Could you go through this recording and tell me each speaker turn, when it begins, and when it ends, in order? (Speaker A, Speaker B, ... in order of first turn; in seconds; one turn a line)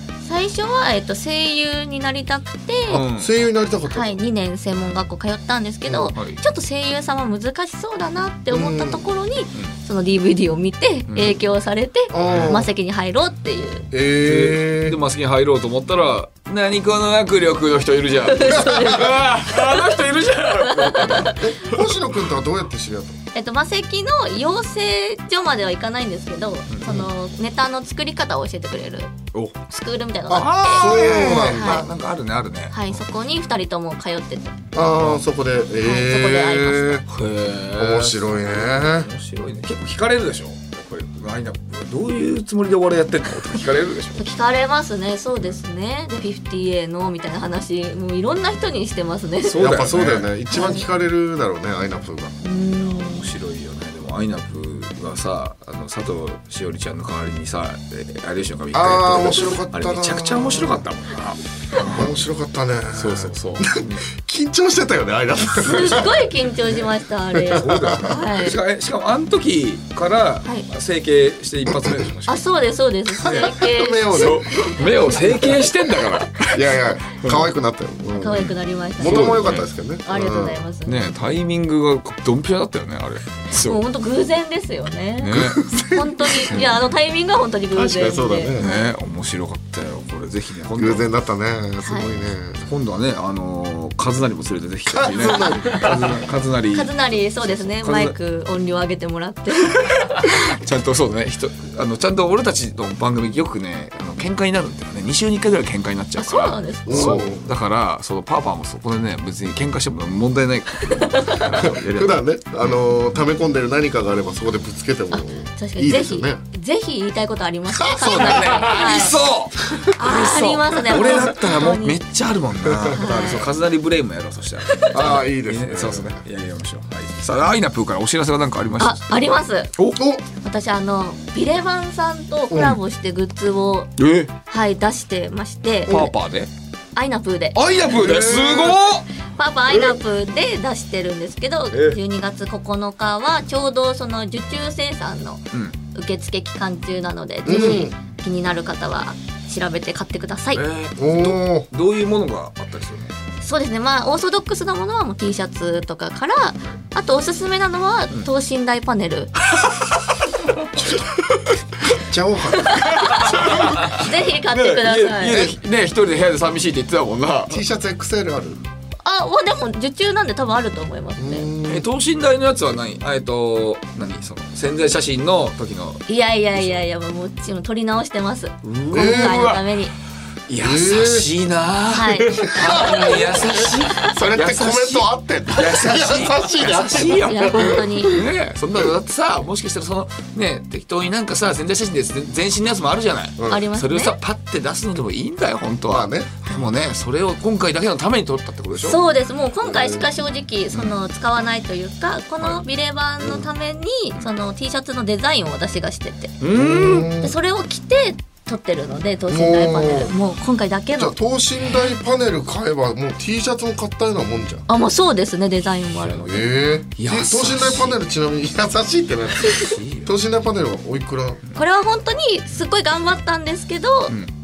Speaker A: 0.2-3.0
Speaker B: 2.9-3.3
Speaker C: 3.0-4.1
Speaker A: 3.9-13.9
Speaker C: 5.8-6.1
Speaker B: 6.1-6.4
Speaker C: 8.5-9.0
Speaker B: 11.1-11.3
Speaker C: 12.1-12.7
Speaker B: 12.2-12.5
Speaker C: 13.9-15.0
Speaker B: 14.1-21.8
Speaker A: 18.3-21.4
Speaker C: 21.2-23.2
Speaker A: 23.3-29.1
Speaker B: 26.7-27.1
Speaker A: 29.7-31.8
Speaker C: 30.3-31.9
Speaker B: 30.3-33.0
Speaker A: 32.7-34.6
Speaker C: 34.7-37.1
Speaker A: 35.8-37.0
Speaker B: 37.1-44.2
Speaker C: 37.8-39.1
Speaker A: 44.1-49.6
Speaker B: 49.4-50.3
Speaker C: 49.5-52.3
Speaker A: 50.5-50.9
Speaker A: 52.4-53.3
Speaker B: 52.8-62.2
Speaker C: 58.7-60.8
Speaker C: 61.8-66.3
Speaker B: 62.9-64.0
Speaker A: 65.5-68.6
Speaker C: 67.3-68.2
Speaker B: 67.5-72.4
Speaker C: 71.7-72.0
Speaker A: 72.3-75.5
Speaker C: 73.1-75.6
Speaker B: 74.1-77.5
Speaker C: 76.5-80.7
Speaker A: 78.2-81.1
Speaker B: 78.4-79.7
Speaker B: 80.8-83.8
Speaker A: 83.5-88.8
Speaker B: 85.2-85.8
Speaker C: 85.3-86.5
Speaker B: 86.3-86.8
Speaker C: 87.7-88.6
Speaker B: 88.6-91.2
Speaker C: 90.8-92.7
Speaker A: 91.8-92.2
Speaker B: 92.7-98.1
Speaker C: 94.9-96.1
Speaker A: 96.7-100.3
Speaker B: 99.7-112.2
Speaker A: 106.2-107.2
Speaker C: 106.9-107.4
Speaker C: 111.5-116.4
Speaker A: 115.1-119.3
Speaker C: 117.8-118.4
Speaker B: 118.0-129.0
Speaker A: 119.9-122.0
Speaker C: 122.7-123.0
Speaker A: 122.9-123.5
Speaker C: 124.9-126.2
Speaker A: 128.8-129.7
Speaker B: 129.8-130.0
Speaker C: 129.9-130.2
Speaker A: 130.4-133.9
Speaker C: 132.5-132.8
Speaker B: 134.0-134.3
Speaker A: 134.5-136.1
Speaker B: 135.9-136.5
Speaker A: 136.9-137.6
Speaker B: 137.5-139.1
Speaker C: 137.9-138.8
Speaker A: 139.3-150.6
Speaker B: 141.7-142.0
Speaker C: 147.4-147.9
Speaker B: 147.5-147.8
Speaker B: 150.5-153.2
Speaker C: 151.0-151.7
Speaker A: 153.4-159.3
Speaker B: 159.5-160.1
Speaker C: 160.8-161.0
Speaker B: 160.9-161.6
Speaker C: 161.9-163.9
Speaker A: 162.7-165.5
Speaker B: 162.8-167.6
Speaker C: 167.5-168.6
Speaker A: 169.0-171.5
Speaker C: 171.2-171.8
Speaker B: 171.6-176.8
Speaker A: 176.1-179.9
Speaker B: 178.6-179.6
Speaker C: 178.9-179.5
Speaker B: 180.5-199.0
Speaker C: 180.6-181.3
Speaker A: 181.9-183.2
Speaker C: 182.5-188.2
Speaker A: 187.1-188.2
Speaker C: 193.4-193.7
Speaker A: 193.5-194.1
Speaker C: 195.9-196.4
Speaker A: 198.8-206.3
Speaker C: 199.6-200.0
Speaker C: 203.2-203.4
Speaker B: 206.4-207.2
Speaker C: 206.5-207.3
Speaker A: 207.2-211.2
Speaker C: 209.3-210.1
Speaker C: 210.9-214.7
Speaker A: 214.7-216.5
Speaker C: 216.2-221.4
Speaker B: 216.9-218.0
Speaker B: 219.5-220.1
Speaker A: 221.5-224.1